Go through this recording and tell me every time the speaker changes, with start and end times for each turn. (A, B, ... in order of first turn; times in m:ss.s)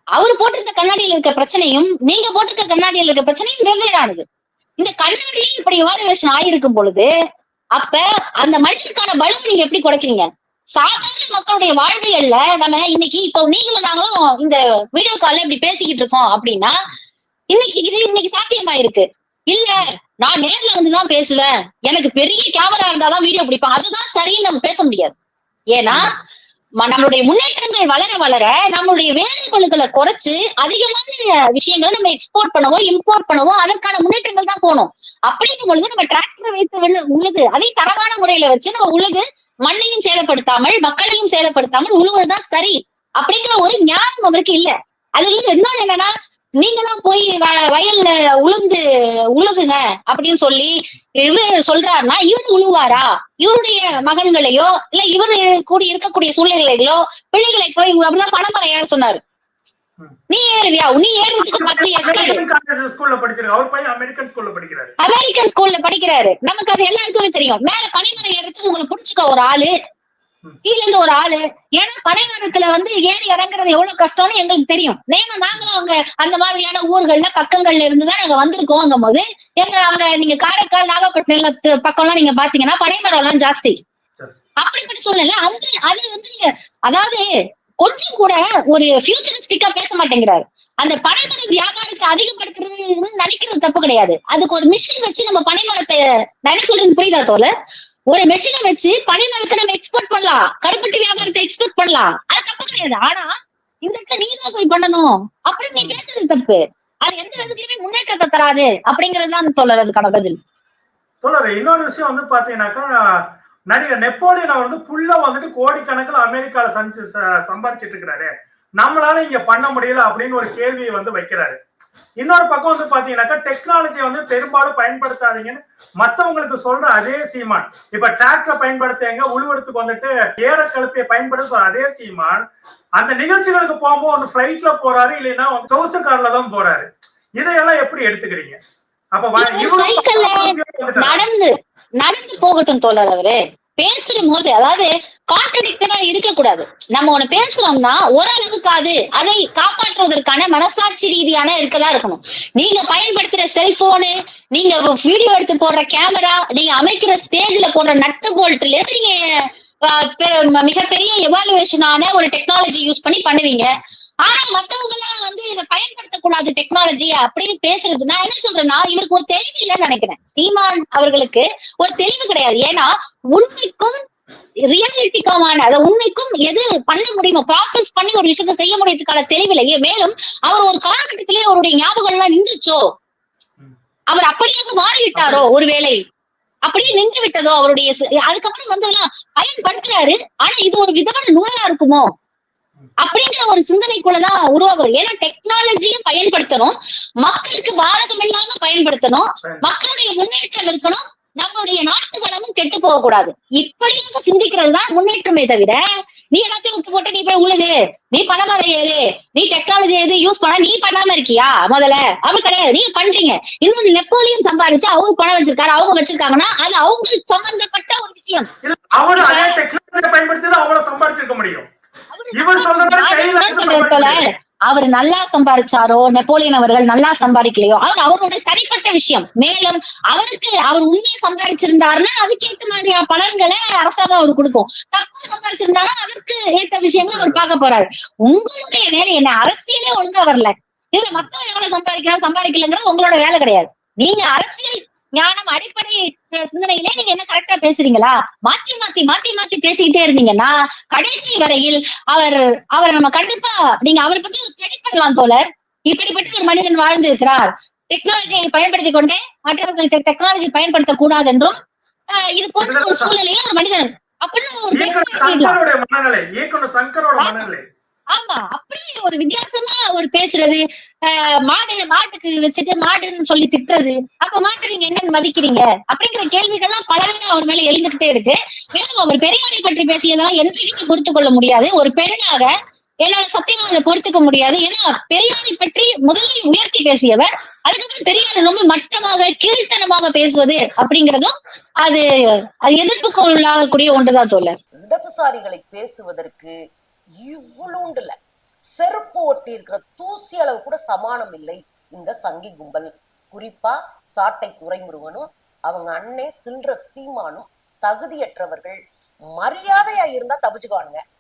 0:00.2-0:04.2 A
0:04.8-0:07.1 A
0:07.8-0:16.7 A
0:17.5-0:25.1 A
0:25.7-0:26.1 A
0:26.8-0:48.8 A
0:49.3-0:59.2 A
1:00.3-1:02.4 A
1:01.5-1:04.9 B
1:05.0-1:09.7 A
1:10.6-1:23.8 A
1:24.6-1:27.2 A
1:27.8-1:37.5 A
1:38.1-1:43.3 A
1:43.8-1:50.4 A
1:51.2-1:52.9 B
1:53.7-2:01.6 B
2:02.2-2:12.4 B
2:13.0-2:16.9 B
2:17.4-2:18.6 B
2:19.1-2:21.2 B
2:19.4-2:20.4 A
2:20.9-2:39.2 A
2:39.8-2:43.7 A
2:44.2-2:54.0 A
2:54.7-3:02.8 A
3:04.1-3:06.0 A
3:05.2-3:05.5 B
3:06.6-3:12.0 A
3:13.0-3:38.5 A
3:19.4-3:19.7 B
3:38.6-3:41.7 B
3:39.1-3:39.6 A
3:42.1-4:21.5 A
3:42.4-3:44.2 B
3:57.0-3:57.4 B
4:22.1-4:25.6 A
4:22.6-4:23.1 B
4:24.7-4:27.6 B
4:27.2-4:27.4 A
4:28.1-4:42.5 A
4:43.0-4:51.3 A
4:52.6-4:54.5 A
4:54.8-4:56.5 C
4:57.2-4:58.1 C
4:58.7-5:08.8 C
5:09.3-5:11.0 C